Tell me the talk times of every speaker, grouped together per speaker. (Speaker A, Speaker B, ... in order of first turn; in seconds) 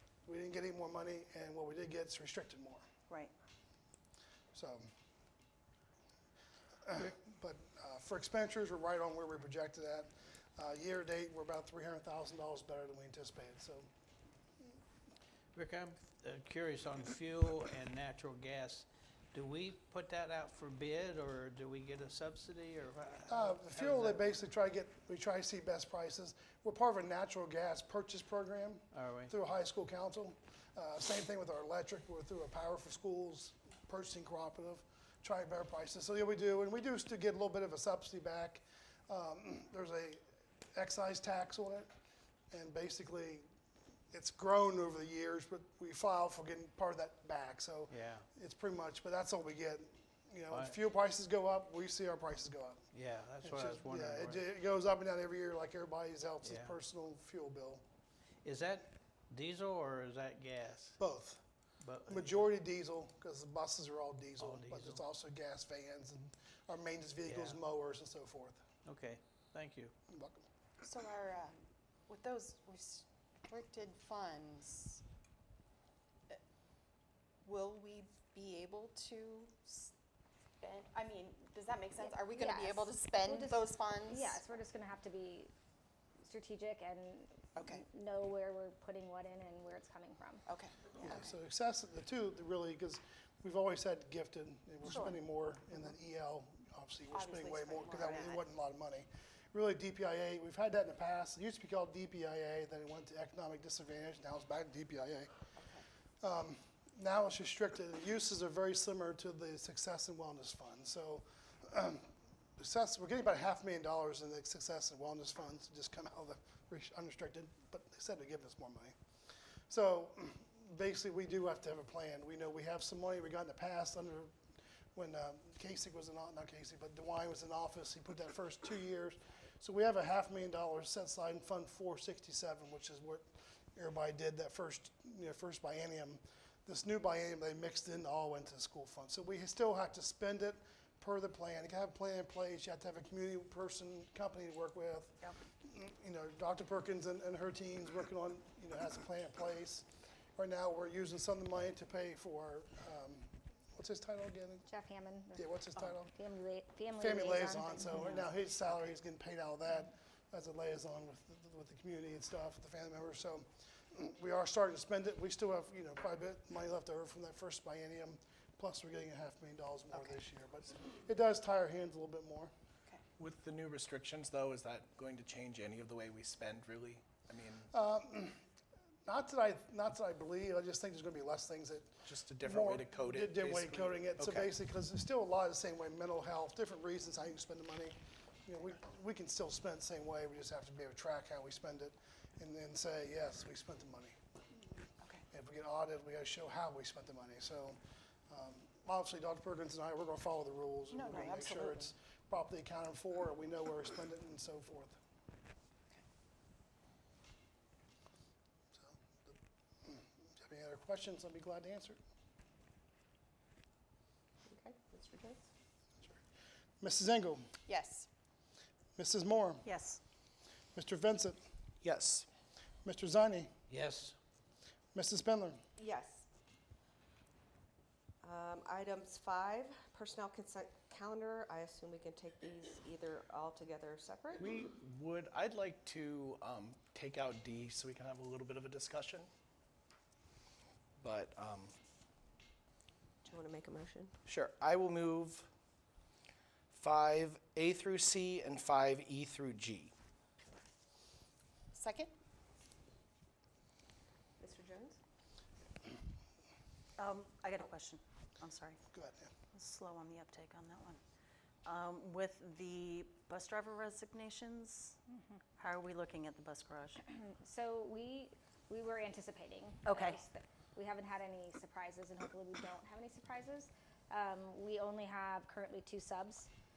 Speaker A: 0.2-2.8, 4.5-4.9, 6.8-13.9, 23.3-40.2, 40.7-41.9, 42.5-43.5, 44.1-52.8, 53.4-57.8, 61.0-61.4, 62.1-68.6, 70.1-70.5, 91.0-105.3, 106.2-118.9, 119.7-124.3, 124.9-154.7, 155.3-156.1, 157.0-172.5, 177.7-178.4, 179.1-194.2, 195.3-197.8, 198.3-205.0, 208.8-212.0, 216.8-217.4, 218.9-219.7, 220.7-221.4, 222.8-223.5, 224.9-225.6, 258.9-259.3
Speaker B: 15.5-24.3, 28.9-29.3, 47.9-48.2, 50.5-50.8, 52.9-54.4, 56.4-56.7, 58.4-61.0, 61.8-62.5, 64.4-65.0, 67.2-67.6, 68.8-69.9, 223.7-224.2
Speaker C: 70.8-71.5, 72.1-75.0, 77.4-79.9, 80.6-84.3, 87.6-87.8, 90.5-91.3, 97.1-98.4, 200.9-201.8, 217.7-218.1, 251.7-252.1
Speaker D: 82.0-85.5, 86.2-90.5, 154.7-155.5, 156.0-158.3, 267.1-276.5
Speaker E: 173.2-177.7, 182.0-184.5, 221.8-222.3, 234.4-239.3, 241.0-241.7, 244.2-245.5, 246.7-249.9
Speaker F: 214.5-215.4, 225.8-226.3, 228.2-234.6, 243.2-244.1, 254.4-255.0
Speaker G: 219.6-220.0, 257.0-258.8, 259.5-261.0, 261.6-265.0, 265.6-267.0, 269.9-270.2